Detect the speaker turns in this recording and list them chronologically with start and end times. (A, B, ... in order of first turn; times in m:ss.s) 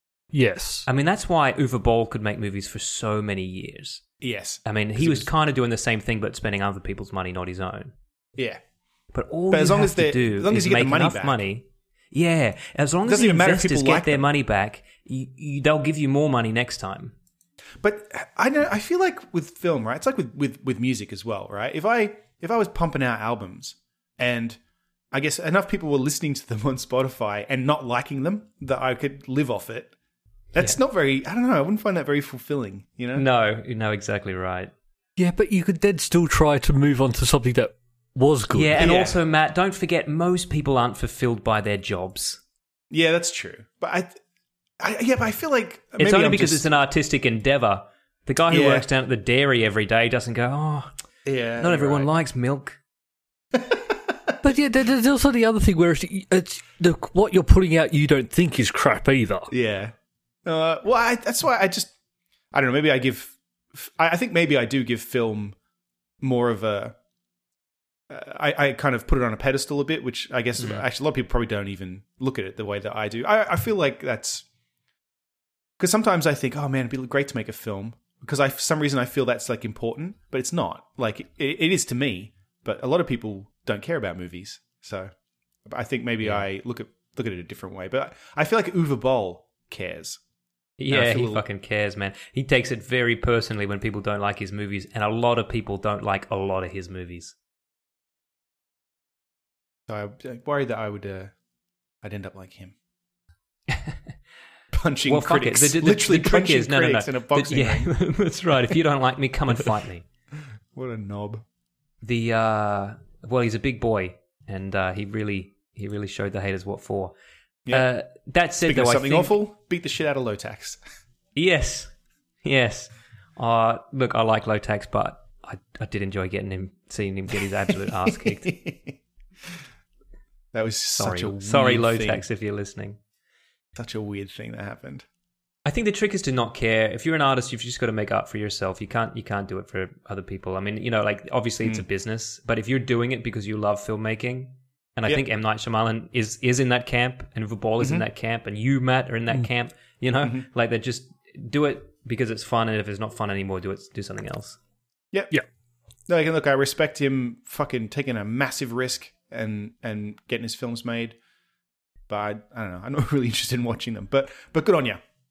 0:00.3-0:00.9 A
0:00.9-0:04.0 B
0:04.2-0:05.3 C
0:04.7-0:07.9 B
0:08.4-0:08.6 C
0:09.1-0:17.2 B
0:09.5-0:11.4 C
0:13.1-0:14.3 C
0:17.8-0:24.6 C
0:25.1-0:29.9 C
0:30.5-0:33.3 C
0:33.2-0:34.7 B
0:35.2-0:38.8 A
0:38.5-0:42.4 B
0:38.8-0:39.2 C
0:42.9-0:44.2 C
0:44.8-0:46.6 C
0:46.0-0:50.9 B
0:48.5-0:48.9 C
0:51.2-0:52.1 C
0:51.6-0:52.8 B
0:53.5-0:54.0 C
0:54.4-0:59.5 A
0:59.5-0:59.9 C
1:00.4-1:01.9 C
1:02.5-1:05.6 C
1:06.2-1:07.0 C
1:08.1-1:14.4 C
1:10.6-1:10.8 B
1:15.8-1:25.1 C
1:25.6-1:30.2 C
1:30.8-1:37.3 B
1:30.9-1:31.4 C
1:39.9-1:41.3 C
1:42.0-1:42.8 C
1:43.7-1:44.0 B
1:44.7-1:47.9 C
1:45.1-1:50.1 B
1:50.8-1:51.4 C
1:52.0-1:57.1 B
1:57.7-1:59.3 B
1:58.6-2:00.8 C
2:01.4-2:01.9 B
2:02.4-2:08.6 B
2:08.1-2:09.0 C
2:10.5-2:12.2 C
2:11.0-2:13.0 B
2:13.8-2:15.0 C
2:15.6-2:34.6 B
2:27.8-2:28.0 C
2:36.1-2:41.2 C
2:42.1-2:45.0 C